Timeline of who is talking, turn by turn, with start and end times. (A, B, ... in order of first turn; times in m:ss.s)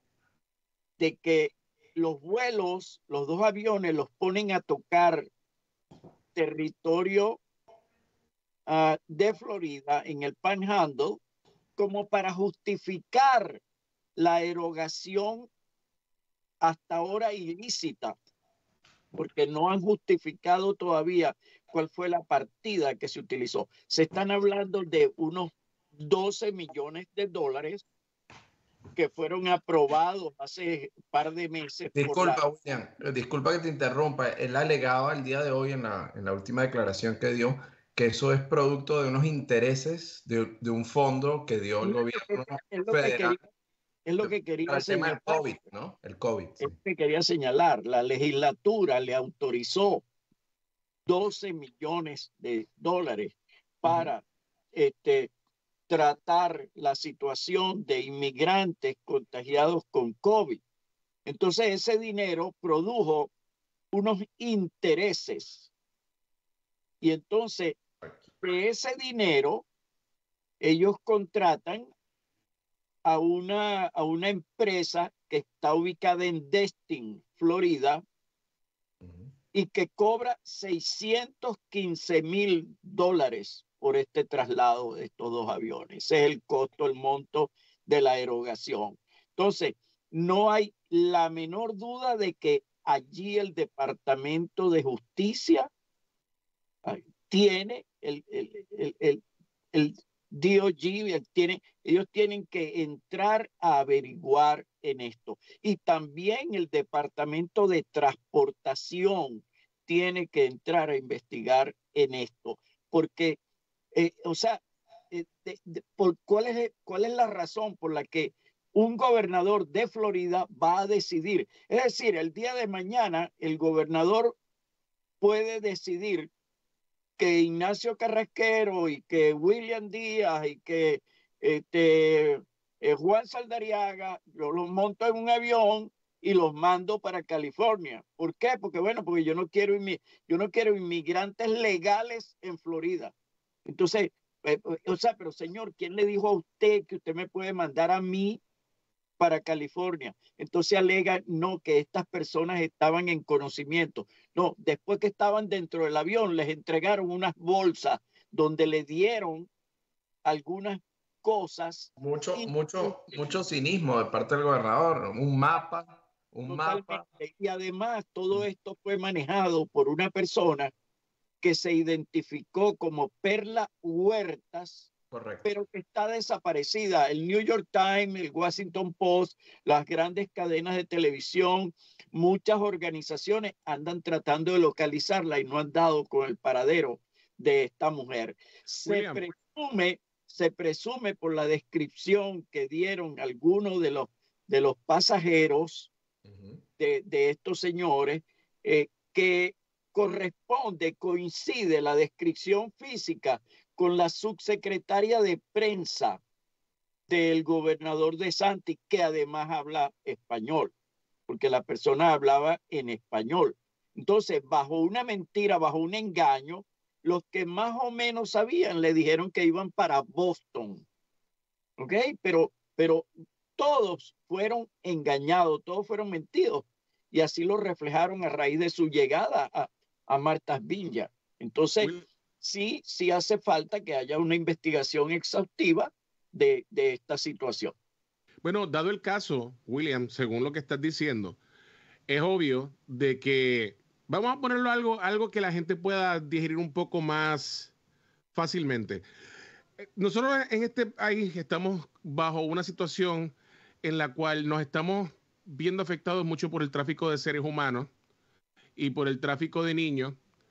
0:01.0-0:05.3 A
0:06.3-0:07.4 A
0:08.7-0:11.2 A
0:11.8-0:13.6 A
0:14.2-0:15.5 A
0:16.6-0:18.2 A
0:19.1-0:27.8 A
0:28.9-0:32.4 A
0:31.9-0:43.4 B
0:41.8-0:43.4 A
0:44.0-0:45.4 A
0:44.2-0:46.7 B
0:46.6-0:50.0 A
0:51.0-0:55.3 A
0:53.8-0:54.1 B
0:55.9-1:00.6 A
1:01.2-1:03.3 A
1:03.9-1:05.7 A
1:07.0-1:07.8 A
1:08.4-1:09.6 A
1:10.6-1:11.9 A
1:13.0-1:18.0 A
1:19.5-1:35.7 A
1:36.8-1:53.4 A
1:53.9-2:04.4 A
2:05.2-2:06.3 A
2:07.2-2:23.1 A
2:23.6-2:28.4 A
2:29.2-2:39.5 A
2:40.2-2:43.3 A
2:42.0-2:47.0 B
2:46.5-2:50.7 A
2:51.4-2:54.9 A
2:55.1-2:55.5 B
2:55.4-3:15.9 A
3:08.7-3:09.2 C
3:16.3-3:16.6 B
3:16.8-3:26.2 A
3:27.1-3:30.7 A
3:31.3-3:40.8 A
3:41.8-3:57.7 A
3:51.8-3:52.0 C
3:58.4-4:01.4 C
4:02.1-4:07.7 C
4:08.3-4:09.0 C
4:09.8-4:17.9 C
4:18.8-4:20.2 C